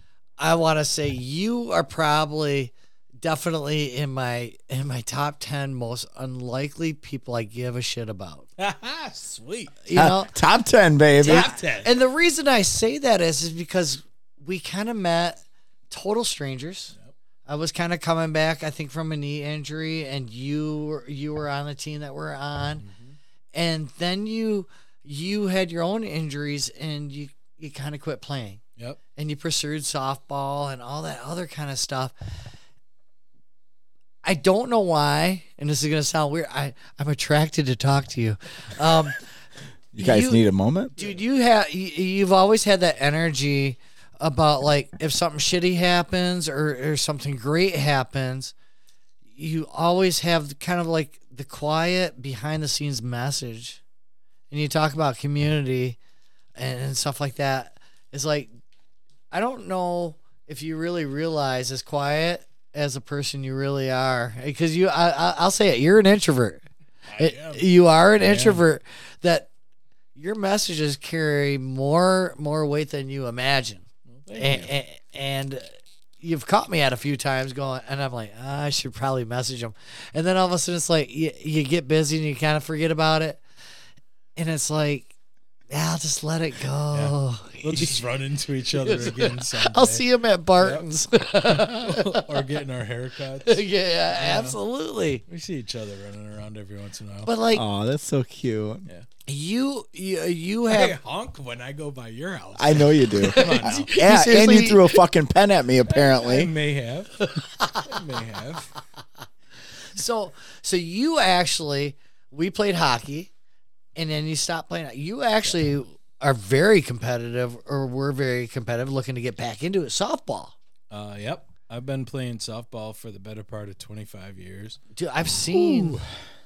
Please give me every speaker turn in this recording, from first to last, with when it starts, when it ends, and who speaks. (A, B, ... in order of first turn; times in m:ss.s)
0:00.4-0:08.5 A
0:08.6-0:09.8 B
0:09.8-0:10.3 A
0:09.9-0:11.5 C
0:11.2-0:11.9 B
0:11.2-0:16.9 A
0:17.4-0:22.8 A
0:22.8-0:23.2 B
0:23.5-0:28.6 A
0:29.1-0:32.1 A
0:34.2-0:39.2 A
0:39.9-0:40.9 C
0:40.0-0:40.4 A
0:40.9-0:48.5 A
0:49.3-0:53.8 A
0:54.5-0:56.0 A
0:56.6-0:58.5 A
0:59.3-1:06.6 A
1:07.1-1:07.6 B
1:07.2-1:09.5 A
1:08.2-1:08.6 B
1:10.1-1:23.4 A
1:14.1-1:14.7 B
1:24.4-1:25.1 A
1:25.7-1:28.0 A
1:26.9-1:30.0 B
1:28.7-1:32.4 A
1:30.6-1:30.9 B
1:31.4-1:34.6 B
1:33.4-1:35.2 A
1:35.3-1:37.3 B
1:37.2-1:37.6 A
1:37.5-1:38.8 C
1:39.3-1:41.0 A
1:40.7-1:43.9 B
1:42.6-1:46.5 C
1:43.2-1:45.0 A
1:45.9-1:48.7 B
1:47.2-1:47.8 A
1:49.9-1:53.3 A
1:54.0-2:00.5 A
2:00.9-2:04.8 B
2:04.9-2:06.0 A
2:05.5-2:06.0 C